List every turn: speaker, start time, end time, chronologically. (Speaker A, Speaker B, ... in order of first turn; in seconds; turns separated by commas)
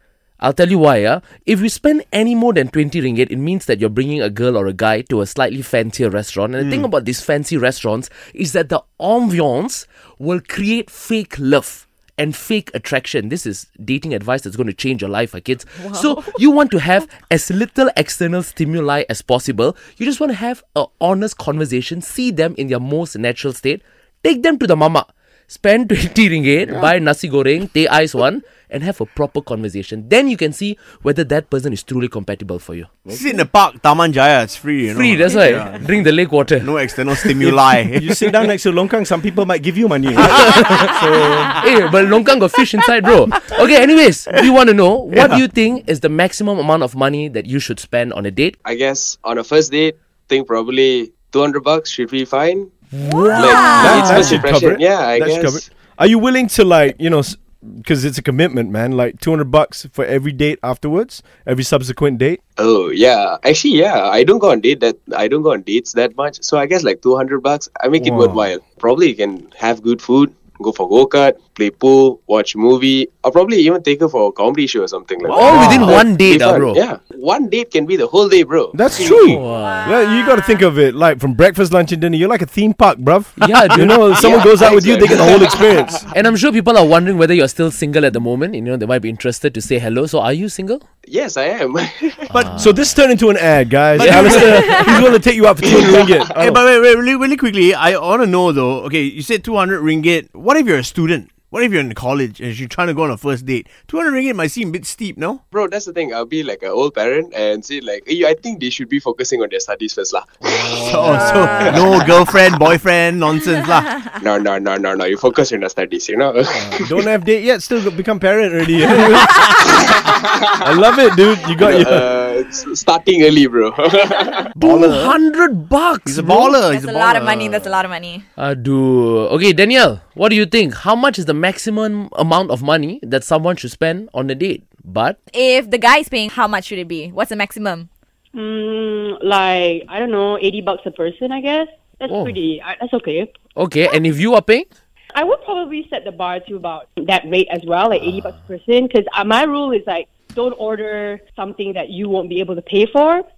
Speaker A: 0.4-32.9, Speaker B: 15.9-16.2, Speaker C: 33.0-33.4, Speaker D: 33.1-35.9, Speaker A: 34.9-36.7, Speaker D: 36.6-38.3, Speaker C: 37.9-41.5, Speaker A: 40.2-40.9, Speaker A: 41.6-48.5, Speaker D: 45.1-45.4, Speaker E: 48.6-52.7, Speaker B: 53.0-54.1, Speaker E: 53.3-55.7, Speaker C: 53.6-62.4, Speaker A: 54.1-54.4, Speaker E: 62.6-79.4, Speaker C: 68.0-68.4, Speaker A: 75.3-76.8, Speaker C: 75.3-76.1, Speaker C: 78.7-86.1, Speaker A: 79.1-79.9, Speaker B: 79.4-80.6, Speaker A: 83.4-84.4, Speaker E: 84.1-86.0, Speaker A: 86.1-90.8, Speaker E: 91.1-92.3, Speaker A: 92.3-92.8, Speaker D: 92.3-92.6, Speaker C: 92.5-96.6, Speaker A: 94.0-95.0, Speaker D: 94.0-94.5, Speaker E: 95.6-96.3, Speaker D: 96.4-105.4, Speaker E: 105.5-110.8, Speaker D: 110.7-114.0, Speaker E: 111.6-111.9, Speaker E: 114.2-117.0, Speaker C: 116.5-119.5, Speaker E: 119.8-120.2, Speaker C: 120.6-122.1, Speaker E: 121.6-124.5, Speaker D: 124.6-125.2, Speaker A: 124.6-126.3, Speaker D: 126.0-127.8, Speaker B: 126.3-128.2, Speaker A: 128.4-135.2, Speaker B: 135.3-137.9, Speaker F: 138.3-143.3, Speaker A: 142.1-142.4, Speaker A: 143.6-144.7, Speaker F: 145.1-153.2